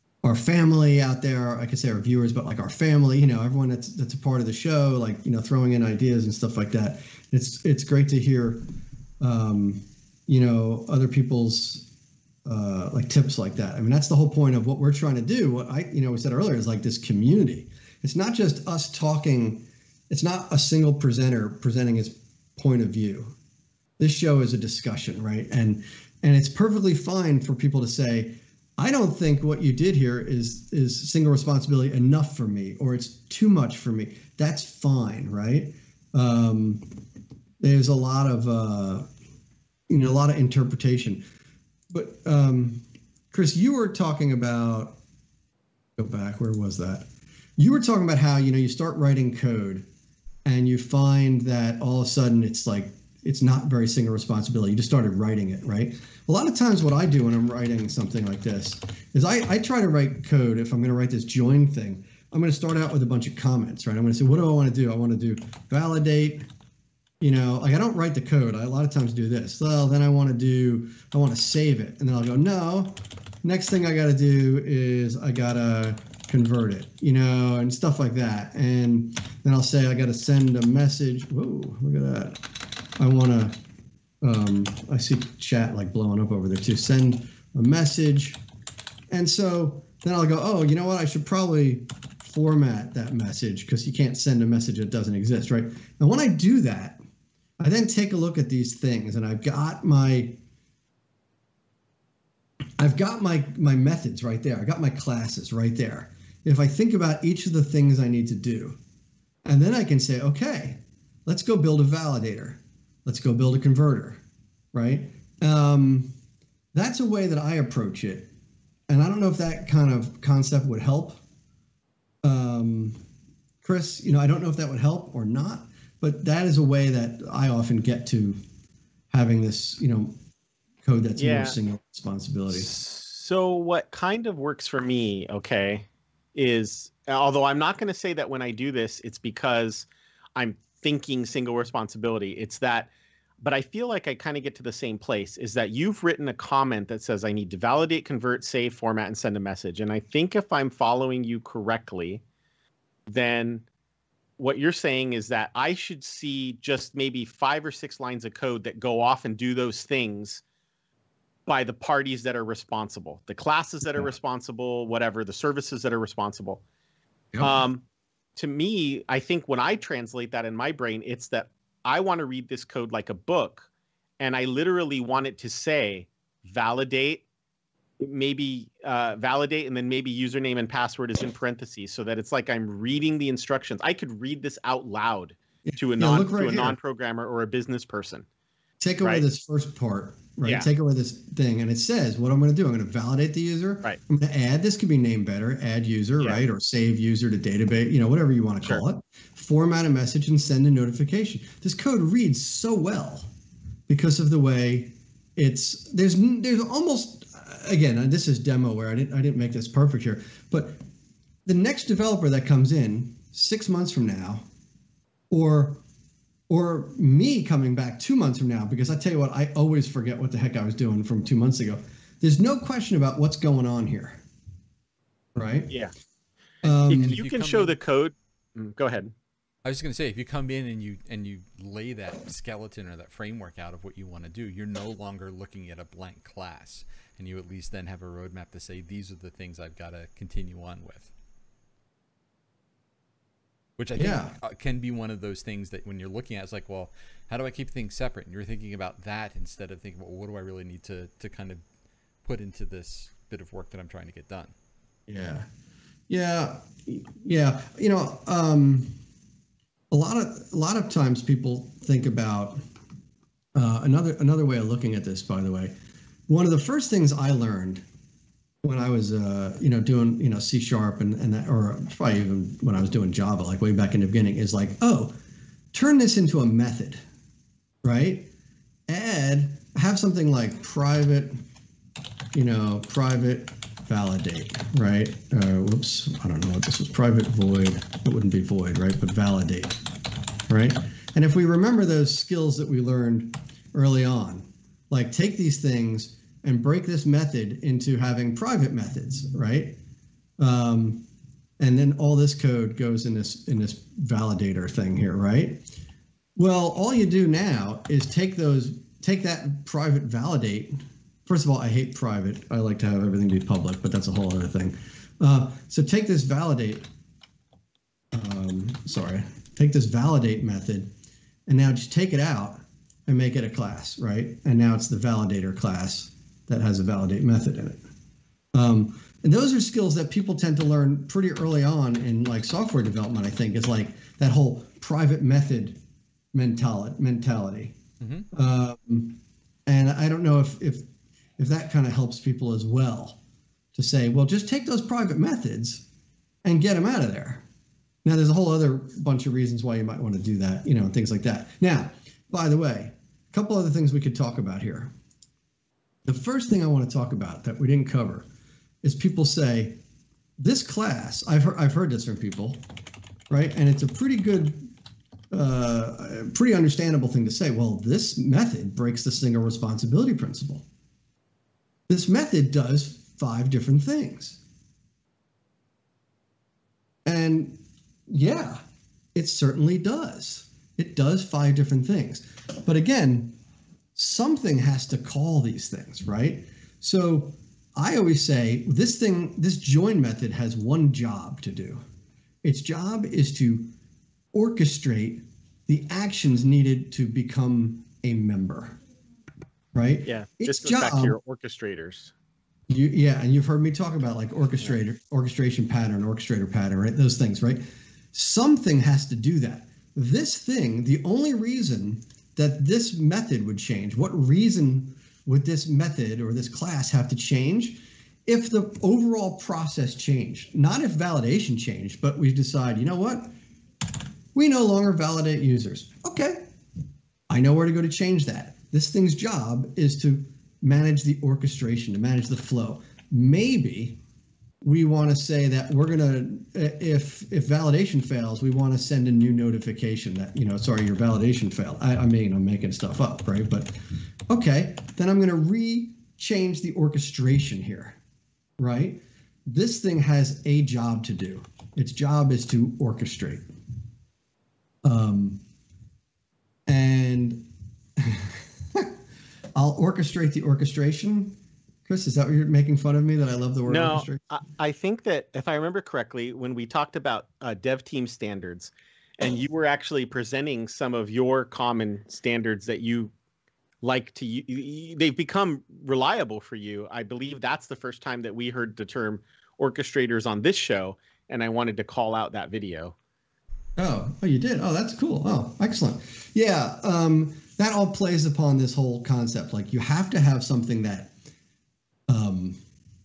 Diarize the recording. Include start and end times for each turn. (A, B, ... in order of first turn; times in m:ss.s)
0:00.2-0:08.6 A
0:09.2-0:11.9 A
0:12.4-0:23.4 A
0:24.0-0:36.9 A
0:37.6-0:39.1 A
0:39.9-0:41.2 A
0:41.9-0:45.0 A
0:46.0-0:49.9 A
0:50.4-1:06.4 A
1:07.2-1:22.4 A
1:23.0-1:23.6 A
1:24.2-1:28.4 A
1:29.1-1:37.0 A
1:37.6-1:40.4 A
1:42.8-1:48.8 A
1:49.4-1:54.2 A
1:54.7-1:56.1 A
1:56.7-1:58.3 A
1:58.9-2:01.2 A
2:02.2-2:03.0 A
2:03.6-2:08.4 A
2:09.1-2:10.2 A
2:10.8-2:12.7 A
2:11.2-2:11.6 B
2:12.5-2:32.2 B
2:33.1-2:33.6 B
2:34.4-2:40.4 B
2:41.5-2:46.6 B
2:47.3-2:47.6 A
2:47.4-2:47.8 B
2:48.4-2:53.7 B
2:54.2-2:57.2 B
2:58.0-3:08.2 B
3:05.6-3:06.8 A
3:08.8-3:23.3 A
3:10.4-3:10.7 B
3:23.9-3:30.8 A
3:31.4-3:34.5 A
3:35.3-3:35.8 A
3:36.5-3:44.2 A
3:45.3-3:45.7 A
3:46.6-3:47.2 A
3:46.7-3:47.8 C
3:46.9-3:49.1 B
3:49.6-4:01.1 C
4:03.8-4:11.6 C
4:04.0-4:04.3 A
4:12.2-4:14.5 C
4:15.1-4:15.5 A
4:16.1-4:19.0 A
4:19.9-4:22.6 A
4:23.6-4:25.7 A
4:26.3-4:27.8 A
4:28.6-4:35.1 A
4:35.7-4:37.0 A
4:37.8-4:38.3 A
4:38.9-4:41.4 A
4:42.3-4:49.8 A
4:50.5-4:59.8 A
5:00.4-5:01.0 A
5:01.6-5:05.6 A
5:06.4-5:16.9 A
5:18.1-5:20.9 A
5:21.5-5:27.8 A
5:28.5-5:35.8 A
5:36.3-5:37.8 A
5:38.0-5:38.3 C
5:38.3-5:40.9 A
5:41.4-5:43.2 A
5:43.7-5:45.8 A
5:46.4-5:47.4 A
5:48.0-5:54.9 A
5:56.0-5:58.2 A
5:58.8-5:59.8 A
6:00.4-6:02.6 A
6:03.3-6:04.7 A
6:05.3-6:10.6 A
6:11.9-6:14.4 A
6:17.0-6:18.6 A
6:19.1-6:23.4 A
6:23.9-6:31.8 A
6:32.4-6:33.7 A
6:34.3-6:38.8 A
6:39.7-6:41.2 A
6:40.0-6:42.1 B
6:42.7-7:03.3 A
7:04.3-7:06.5 A
7:07.3-7:14.0 A
7:14.6-7:23.7 A
7:24.3-7:28.0 A
7:28.6-7:33.4 A
7:34.8-7:35.4 A
7:36.7-7:38.9 A
7:39.6-7:44.3 A
7:43.7-7:53.1 B
7:53.8-8:02.9 B
8:03.8-8:11.1 A
8:12.1-8:12.6 A